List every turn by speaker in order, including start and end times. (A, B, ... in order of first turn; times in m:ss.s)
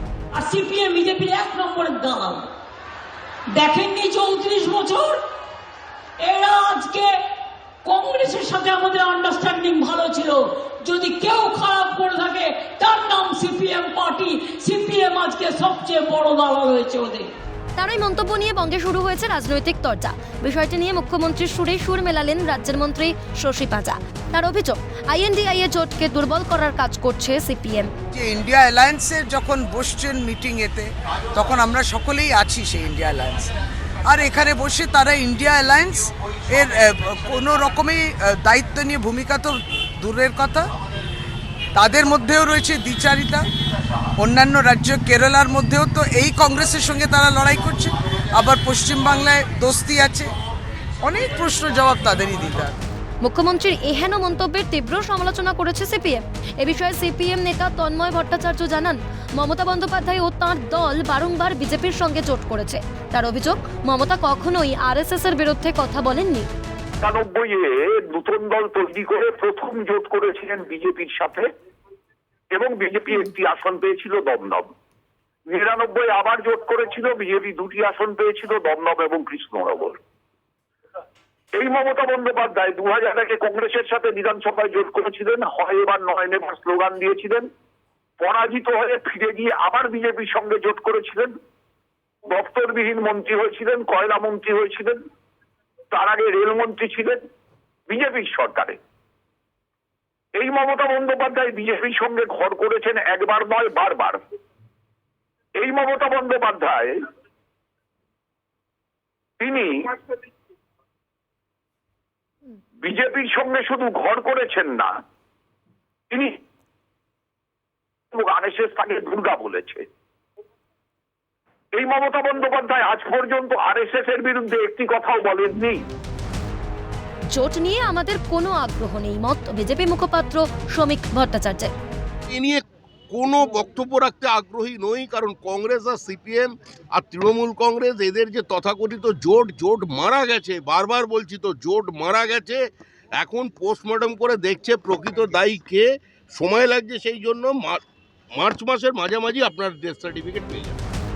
0:00.3-0:02.5 A
0:03.5-0:05.2 A
0:06.2-0:07.2 A
0:07.8-0:17.3 A
0:17.8-0:27.9 B
0:28.1-0:33.5 C
0:34.1-0:40.7 C
0:41.8-0:43.4 C
0:44.2-0:50.3 C
0:51.0-0:52.7 C
0:53.2-1:06.5 B
1:07.0-1:11.5 D
1:12.5-1:14.7 D
1:15.5-1:20.0 D
1:21.6-1:27.5 D
1:28.2-1:31.3 D
1:32.3-1:35.0 D
1:35.9-1:37.2 D
1:37.9-1:38.8 D
1:40.4-1:44.2 D
1:45.6-1:47.0 D
1:49.4-1:50.0 D
1:52.8-1:54.9 D
1:56.1-1:56.4 D
1:58.1-1:59.8 D
2:01.8-2:05.8 D
2:07.3-2:11.7 B
2:12.3-2:22.6 E
2:23.2-2:27.8 E
2:28.4-2:30.8 E